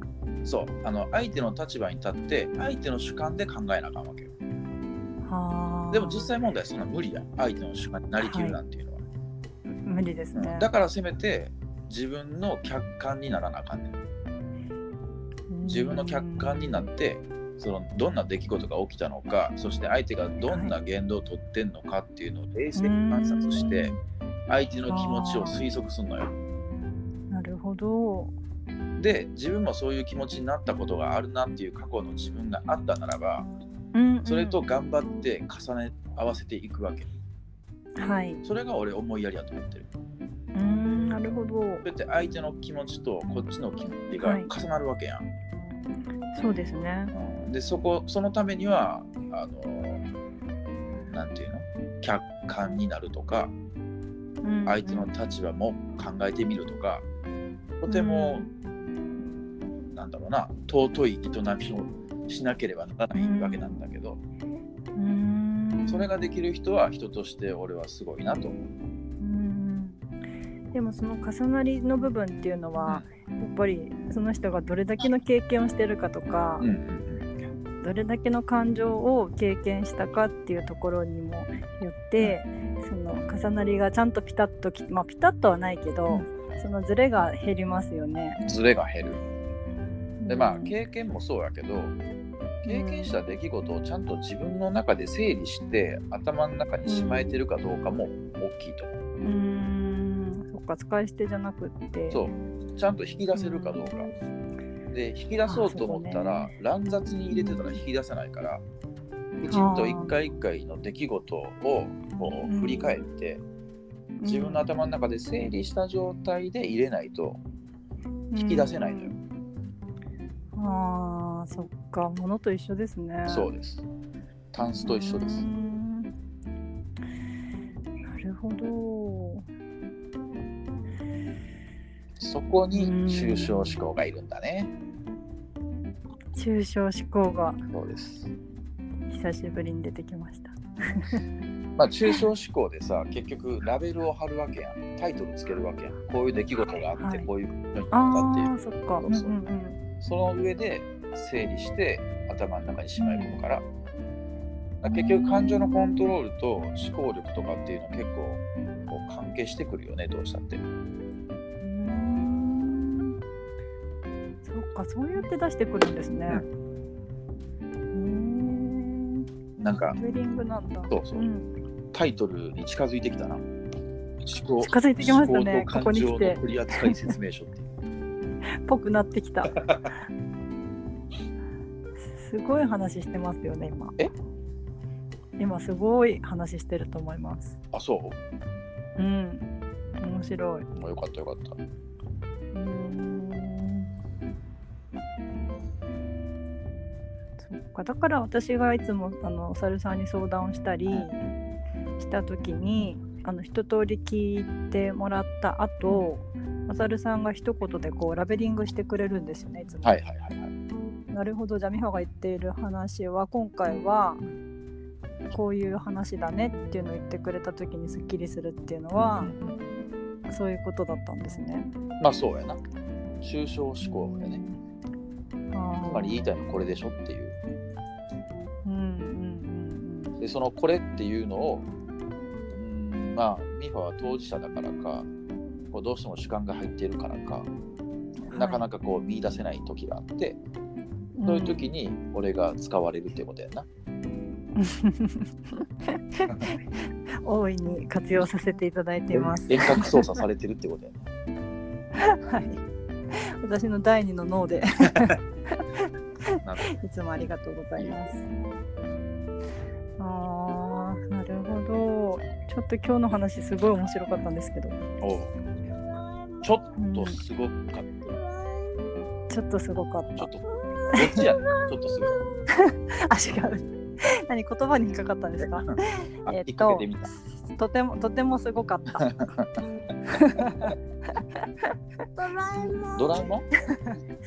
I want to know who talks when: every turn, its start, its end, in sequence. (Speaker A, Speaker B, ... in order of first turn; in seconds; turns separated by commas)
Speaker A: 0.4-4.3, Speaker B: 5.2-6.3, Speaker A: 5.9-9.0, Speaker B: 8.2-8.6, Speaker B: 9.8-10.7, Speaker A: 10.3-13.9, Speaker B: 15.5-16.9, Speaker A: 15.6-23.9, Speaker B: 20.4-20.7, Speaker B: 22.7-24.0, Speaker A: 24.5-26.3, Speaker B: 24.9-25.6, Speaker B: 27.3-28.3, Speaker A: 29.0-33.5, Speaker B: 33.9-34.6, Speaker A: 34.2-37.1, Speaker B: 38.0-38.4, Speaker A: 38.4-39.9, Speaker B: 40.5-41.8, Speaker A: 41.8-45.3, Speaker B: 44.2-44.5, Speaker B: 46.3-47.1, Speaker A: 47.1-50.0, Speaker A: 51.1-53.5, Speaker B: 54.4-55.1, Speaker A: 54.6-57.0, Speaker A: 57.8-58.5, Speaker B: 57.9-58.5, Speaker A: 59.9-64.2, Speaker B: 63.1-63.8, Speaker B: 65.0-66.1, Speaker A: 65.9-68.7, Speaker B: 69.2-70.0, Speaker B: 70.7-76.7, Speaker A: 76.6-77.2, Speaker B: 77.8-88.4, Speaker A: 88.4-89.2, Speaker B: 90.2-90.8, Speaker A: 90.3-92.0, Speaker A: 92.6-99.0, Speaker B: 92.7-93.2, Speaker B: 96.8-97.4, Speaker B: 99.2-102.2, Speaker A: 102.1-104.1, Speaker B: 103.3-103.9, Speaker A: 104.9-108.6, Speaker B: 105.4-106.5, Speaker B: 107.3-107.8, Speaker A: 109.4-113.4, Speaker B: 109.5-110.1, Speaker B: 112.4-113.0, Speaker B: 114.2-114.7, Speaker A: 114.2-117.4, Speaker B: 118.3-119.2, Speaker A: 118.3-119.1, Speaker B: 120.5-123.5, Speaker A: 123.3-123.8, Speaker A: 124.5-125.5, Speaker B: 124.8-126.1, Speaker B: 128.0-129.4, Speaker A: 132.2-134.7, Speaker B: 132.7-133.8, Speaker B: 136.3-137.6, Speaker A: 137.7-138.3, Speaker B: 139.1-141.2, Speaker A: 141.8-149.3, Speaker B: 147.0-147.3, Speaker B: 147.9-149.8, Speaker A: 150.0-153.6, Speaker B: 153.0-153.3, Speaker A: 154.8-160.6, Speaker B: 154.8-156.1, Speaker B: 161.6-163.1, Speaker B: 164.4-166.4, Speaker B: 167.9-169.2, Speaker A: 169.6-170.0, Speaker B: 169.9-171.5, Speaker A: 170.9-171.3, Speaker A: 171.9-173.4, Speaker A: 174.2-177.7, Speaker B: 174.6-177.2, Speaker B: 178.6-179.6, Speaker A: 179.5-179.9, Speaker B: 182.1-183.9, Speaker B: 185.4-187.6, Speaker A: 187.7-188.2, Speaker B: 189.0-189.5, Speaker B: 190.0-190.7, Speaker A: 190.7-191.6, Speaker B: 192.5-193.9, Speaker B: 197.4-201.2, Speaker B: 202.0-210.0, Speaker A: 209.8-210.5, Speaker B: 211.1-214.2, Speaker B: 215.3-219.3, Speaker A: 218.9-219.7, Speaker B: 220.3-221.7, Speaker A: 222.0-222.6, Speaker A: 223.2-224.4, Speaker B: 223.8-224.6, Speaker B: 225.5-226.3, Speaker A: 225.8-227.3, Speaker B: 228.6-230.2, Speaker A: 230.2-231.7, Speaker A: 232.5-235.1, Speaker A: 235.7-237.5, Speaker A: 238.2-240.4, Speaker B: 238.3-238.7, Speaker B: 241.2-241.7, Speaker A: 241.2-243.7, Speaker B: 244.6-250.2, Speaker A: 249.1-251.1, Speaker B: 251.9-258.2, Speaker A: 256.4-256.8, Speaker A: 257.8-258.1, Speaker B: 260.0-264.8, Speaker A: 265.0-265.3, Speaker A: 266.4-268.1, Speaker B: 266.8-267.2, Speaker B: 269.3-270.3, Speaker A: 270.2-272.2, Speaker B: 270.9-271.2, Speaker B: 272.2-279.1, Speaker A: 275.4-277.1, Speaker A: 279.0-279.6, Speaker B: 280.1-284.0, Speaker A: 282.9-283.4